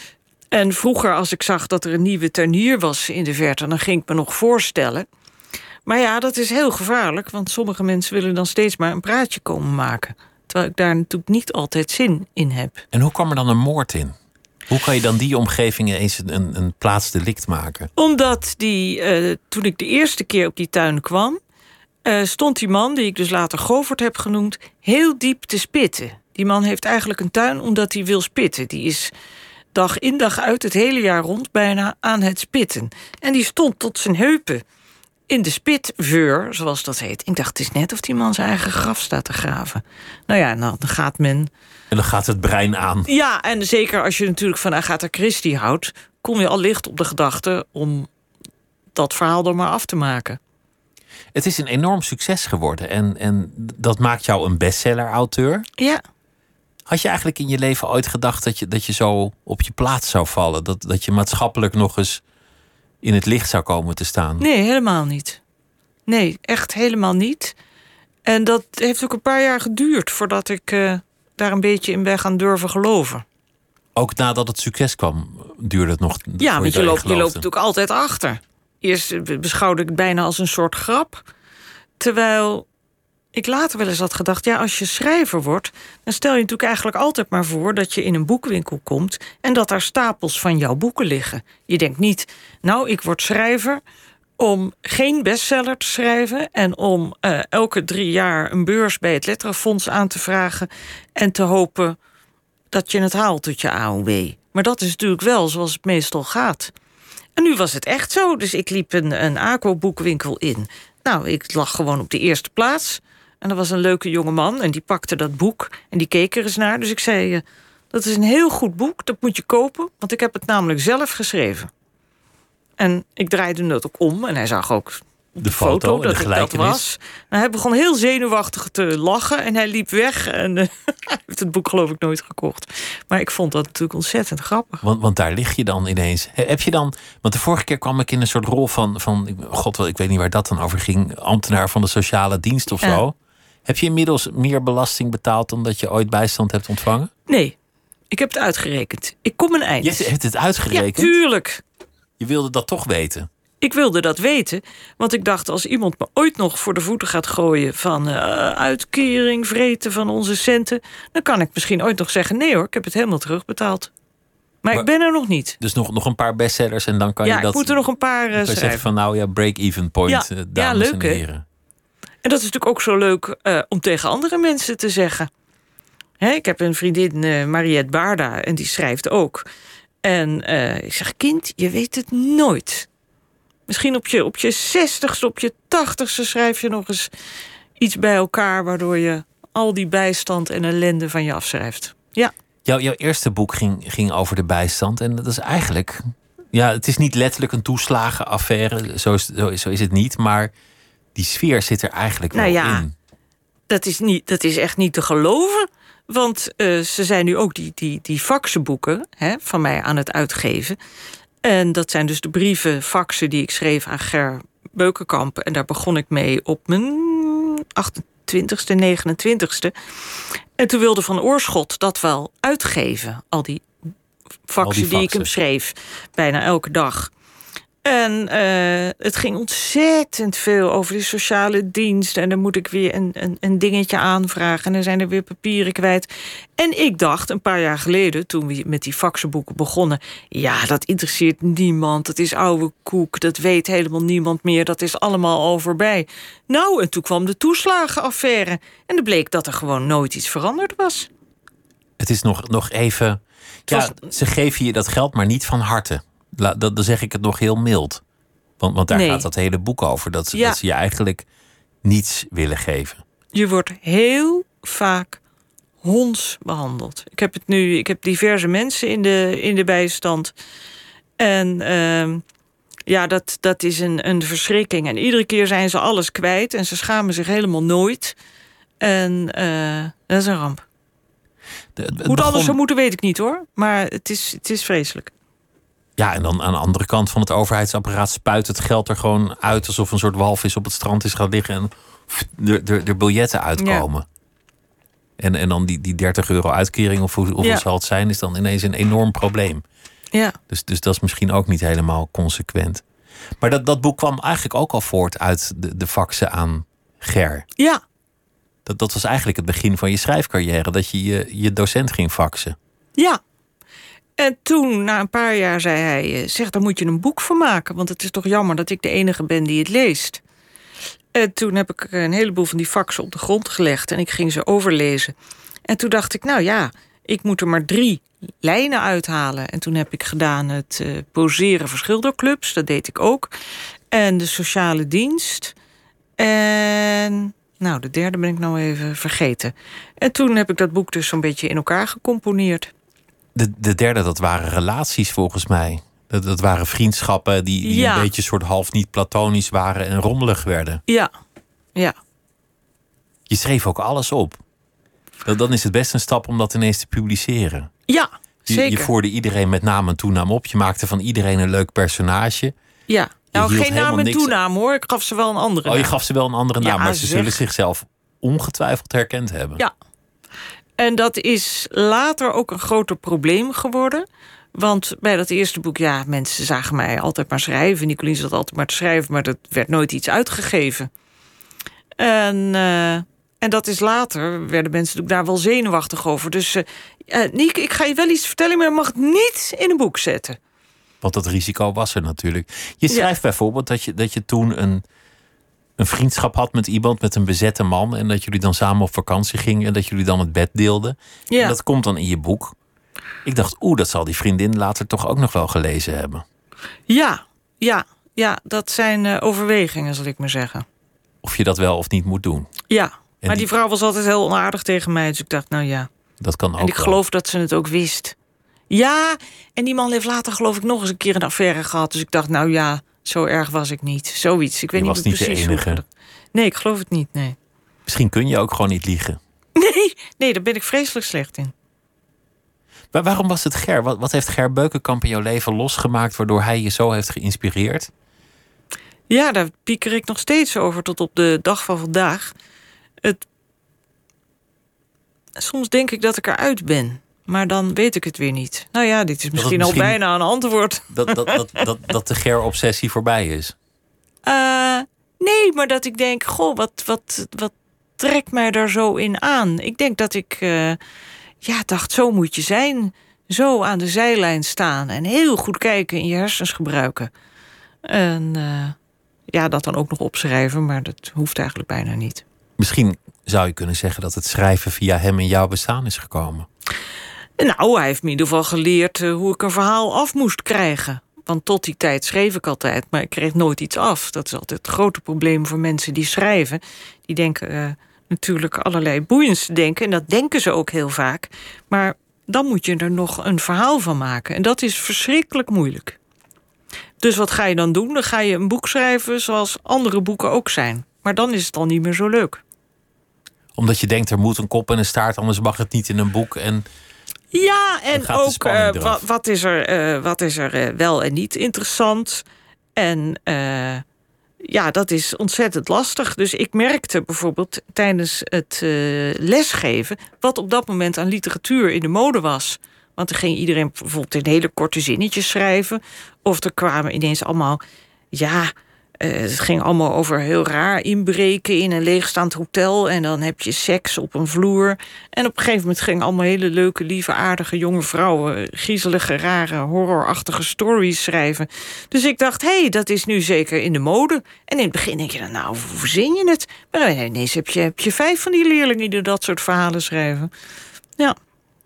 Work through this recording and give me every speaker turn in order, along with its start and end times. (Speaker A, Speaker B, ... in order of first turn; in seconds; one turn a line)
Speaker A: 0.5-5.1
Speaker A: 5.9-12.8
Speaker B: 12.9-14.2
Speaker B: 14.7-17.9
Speaker A: 18.0-21.4
Speaker A: 22.1-29.1
Speaker A: 29.7-34.6
Speaker A: 35.3-41.5
Speaker B: 41.9-43.1
Speaker A: 43.1-48.1
Speaker A: 49.0-50.4
Speaker B: 51.3-55.7
Speaker B: 56.9-62.2
Speaker B: 63.0-64.5
Speaker A: 64.4-65.4
Speaker A: 66.1-67.5
Speaker A: 68.3-73.2
Speaker B: 74.0-77.5
Speaker A: 76.4-81.2
Speaker A: 82.0-82.7
Speaker A: 83.3-93.8
Speaker A: 94.4-102.0
Speaker A: 102.7-106.7
Speaker A: 107.4-121.7
Speaker A: 122.8-134.8
Speaker B: 125.4-126.8
Speaker B: 134.8-143.2
Speaker B: 143.7-147.1
Speaker A: 147.3-147.6
Speaker A: 148.1-150.1
Speaker B: 149.8-151.2
Speaker A: 150.7-151.6
Speaker B: 152.2-153.3
Speaker A: 153.6-163.9
Speaker A: 164.6-165.6
Speaker B: 165.6-167.8
Speaker A: 167.2-168.8
Speaker B: 168.3-171.4
Speaker A: 170.1-171.2
Speaker A: 172.2-175.3
Speaker A: 176.2-179.5
Speaker A: 180.0-182.9
Speaker A: 183.7-187.1
Speaker A: 187.8-192.3
Speaker B: 192.7-200.5
Speaker B: 201.2-202.9
Speaker A: 202.3-202.8
Speaker A: 203.7-210.8
Speaker A: 211.4-219.7
Speaker A: 220.6-223.7
Speaker A: 224.5-227.1
Speaker B: 224.6-225.3
Speaker A: 227.8-251.1
Speaker B: 252.0-258.0
Speaker A: 253.7-254.1
Speaker B: 258.6-261.2
Speaker A: 258.9-259.3
Speaker A: 260.3-260.6
Speaker B: 261.8-263.0
Speaker A: 263.3-265.2
Speaker A: 265.8-270.3
Speaker A: 271.2-272.2
Speaker A: 272.9-278.2
Speaker A: 278.8-280.6
Speaker B: 281.8-282.6
Speaker A: 282.1-285.1
Speaker B: 286.0-294.1
Speaker A: 293.6-293.8
Speaker B: 295.2-299.6
Speaker B: 300.5-302.8
Speaker B: 303.4-307.5
Speaker B: 308.7-312.6
Speaker A: 314.2-320.2
Speaker A: 321.1-325.1
Speaker A: 325.7-333.3
Speaker A: 333.9-335.5
Speaker A: 336.2-342.7
Speaker B: 343.4-350.8
Speaker A: 347.6-348.1
Speaker B: 353.3-354.4
Speaker B: 355.2-357.7
Speaker A: 357.9-358.9
Speaker B: 358.5-362.5
Speaker A: 362.9-365.9
Speaker B: 363.3-364.4
Speaker B: 365.7-369.6
Speaker A: 366.6-367.4
Speaker A: 370.8-380.9
Speaker A: 382.0-390.4
Speaker B: 391.0-394.8
Speaker B: 395.8-402.6
Speaker A: 401.3-401.6
Speaker B: 403.2-406.2
Speaker A: 406.9-410.6
Speaker B: 411.2-412.5
Speaker A: 412.7-415.9
Speaker B: 416.2-417.0
Speaker A: 416.6-418.1
Speaker A: 418.7-427.4
Speaker B: 424.8-425.8
Speaker B: 427.9-429.2
Speaker A: 429.6-431.5
Speaker B: 432.9-437.9
Speaker A: 439.1-442.3
Speaker A: 445.4-451.6
Speaker B: 449.4-450.0
Speaker B: 450.9-453.6
Speaker A: 454.3-460.8
Speaker A: 461.4-467.1
Speaker A: 467.9-468.8
Speaker A: 469.3-472.2
Speaker B: 472.6-476.5
Speaker A: 477.4-496.0
Speaker A: 497.0-502.4
Speaker B: 503.6-506.7
Speaker A: 507.3-512.2
Speaker B: 507.9-509.0
Speaker A: 512.8-513.8
Speaker A: 514.4-527.6
Speaker A: 528.1-550.3